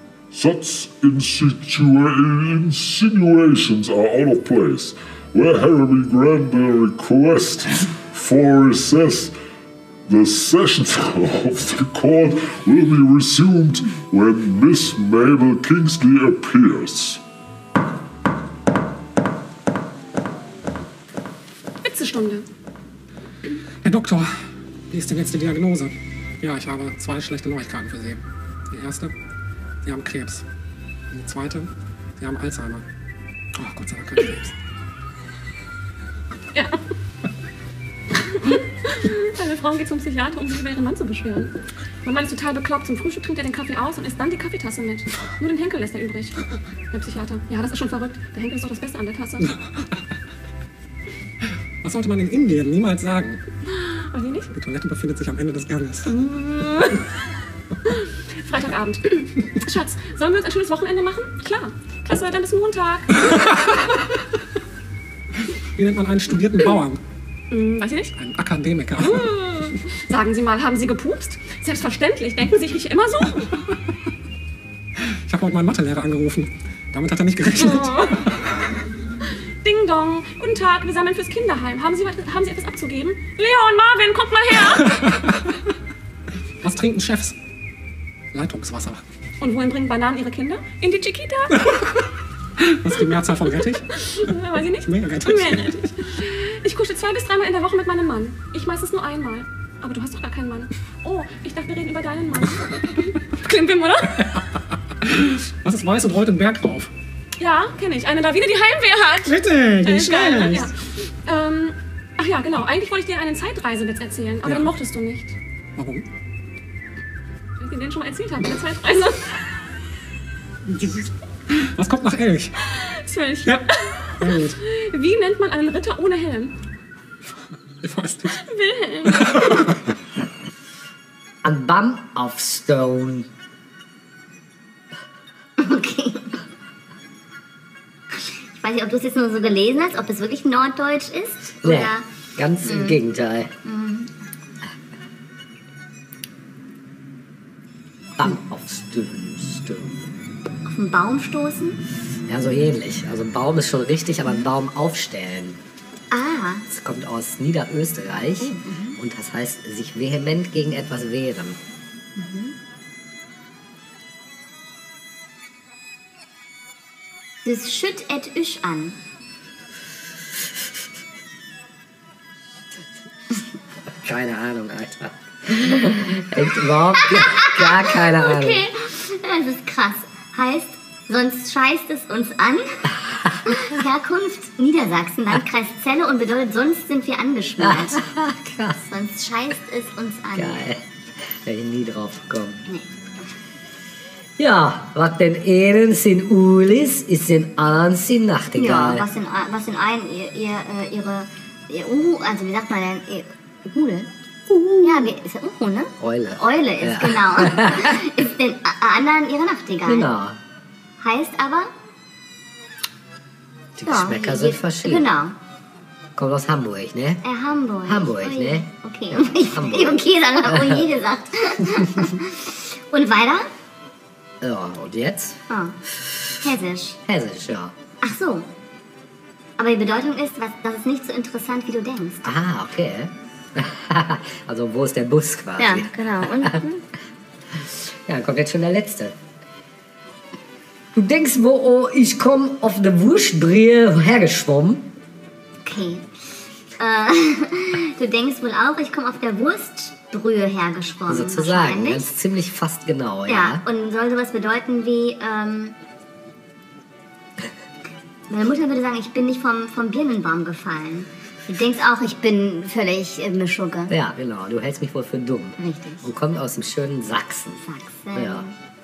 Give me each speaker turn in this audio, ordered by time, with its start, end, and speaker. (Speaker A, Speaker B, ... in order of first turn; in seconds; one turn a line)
Speaker A: 0.3-9.3
Speaker A: 10.1-17.2
Speaker B: 21.8-22.5
Speaker C: 23.8-24.3
Speaker C: 24.9-29.1
Speaker C: 29.8-30.4
Speaker C: 31.1-32.8
Speaker C: 33.5-34.5
Speaker B: 36.5-36.8
Speaker B: 38.2-41.5
Speaker B: 42.0-49.5
Speaker C: 51.8-53.4
Speaker B: 53.7-54.5
Speaker C: 54.5-56.4
Speaker B: 56.2-57.0
Speaker B: 58.4-63.3
Speaker C: 65.8-67.0
Speaker B: 67.5-68.1
Speaker C: 68.2-69.3
Speaker B: 69.0-73.6
Speaker C: 75.2-78.5
Speaker B: 77.5-78.2
Speaker B: 79.6-85.0
Speaker C: 84.8-85.5
Speaker C: 86.6-87.4
Speaker C: 88.3-89.0
Speaker B: 89.4-91.7
Speaker C: 91.6-91.9
Speaker C: 92.6-93.8
Speaker B: 93.5-104.4
Speaker C: 94.8-95.8
Speaker C: 105.0-106.9
Speaker B: 107.4-115.3
Speaker C: 109.2-110.7
Speaker C: 114.4-114.7
Speaker C: 115.8-116.0
Speaker B: 117.6-119.4
Speaker C: 120.7-122.5
Speaker B: 122.7-126.5
Speaker C: 124.2-124.6
Speaker C: 127.8-128.4
Speaker B: 128.3-129.6
Speaker C: 129.0-129.8
Speaker D: 131.4-133.3
Speaker E: 135.6-136.4
Speaker E: 138.1-142.1
Speaker D: 141.6-143.5
Speaker E: 142.6-143.0
Speaker E: 143.6-144.2
Speaker D: 148.2-150.0
Speaker E: 150.7-151.8
Speaker D: 152.3-155.6
Speaker E: 156.1-156.7
Speaker D: 156.7-161.6
Speaker E: 158.4-159.0
Speaker E: 162.2-162.6
Speaker E: 167.4-169.0
Speaker D: 174.0-178.7
Speaker E: 176.9-188.1
Speaker D: 187.6-188.8
Speaker E: 188.8-190.7
Speaker D: 190.3-192.6
Speaker D: 194.4-199.0
Speaker E: 198.6-204.1
Speaker D: 204.5-205.1
Speaker E: 204.8-210.1
Speaker D: 206.0-208.0
Speaker D: 209.8-210.4
Speaker E: 211.0-211.7
Speaker D: 213.8-215.1
Speaker E: 213.8-215.3
Speaker D: 216.2-217.2
Speaker E: 217.2-223.5
Speaker D: 217.9-220.9
Speaker D: 221.6-222.1
Speaker D: 224.4-225.4
Speaker E: 225.5-225.8
Speaker E: 226.4-227.0
Speaker D: 227.1-227.7
Speaker E: 228.0-228.5
Speaker E: 229.6-232.3
Speaker D: 232.2-236.6
Speaker E: 235.6-236.8
Speaker D: 237.6-239.2
Speaker D: 240.9-244.9
Speaker E: 245.6-246.1
Speaker E: 246.8-252.1
Speaker D: 251.1-253.6
Speaker E: 253.3-255.8
Speaker E: 258.3-263.9
Speaker D: 263.9-267.6
Speaker E: 265.6-266.1
Speaker E: 267.6-268.5
Speaker D: 268.1-268.4